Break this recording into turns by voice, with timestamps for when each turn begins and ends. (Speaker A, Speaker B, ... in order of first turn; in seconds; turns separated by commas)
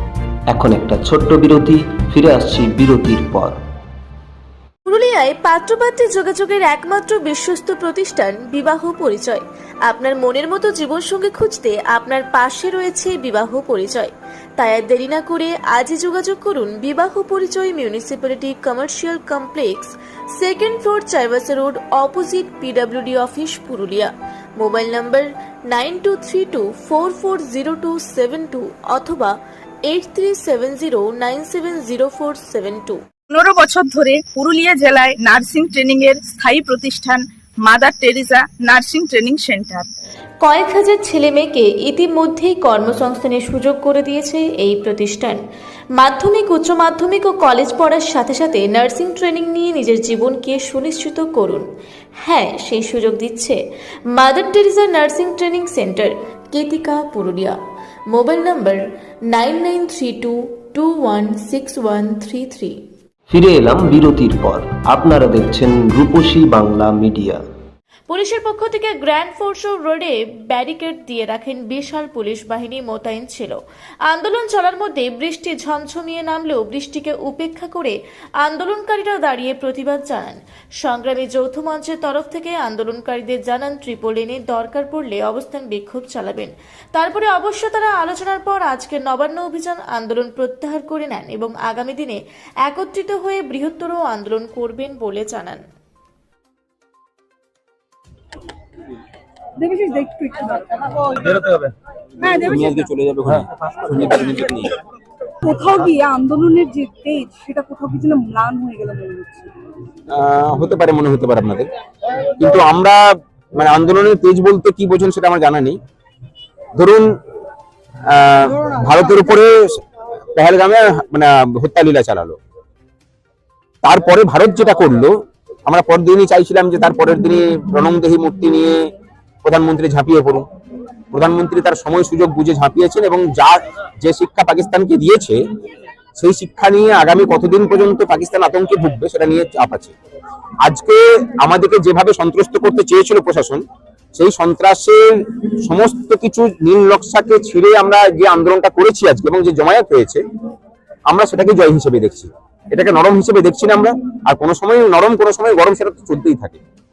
Speaker A: 0.5-3.6, Speaker B: 4.8-33.0, Speaker C: 33.3-39.9, Speaker B: 40.4-45.4, Speaker B: 45.9-51.6, Speaker B: 52.2-53.6, Speaker B: 54.1-57.6, Speaker B: 58.1-62.8, Speaker A: 63.3-67.4, Speaker B: 68.1-95.6, Speaker D: 99.6-100.9, Speaker D: 102.2-102.7, Speaker E: 102.4-104.7, Speaker D: 105.4-109.5, Speaker E: 110.1-111.7, Speaker E: 112.4-115.8, Speaker E: 116.8-117.1, Speaker E: 118.1-119.8, Speaker E: 120.3-122.4, Speaker E: 123.8-125.1, Speaker E: 125.7-128.9, Speaker E: 129.4-130.4, Speaker E: 131.1-135.4, Speaker E: 136.2-139.9, Speaker E: 140.6-143.6, Speaker E: 144.1-150.2, Speaker E: 151.1-156.6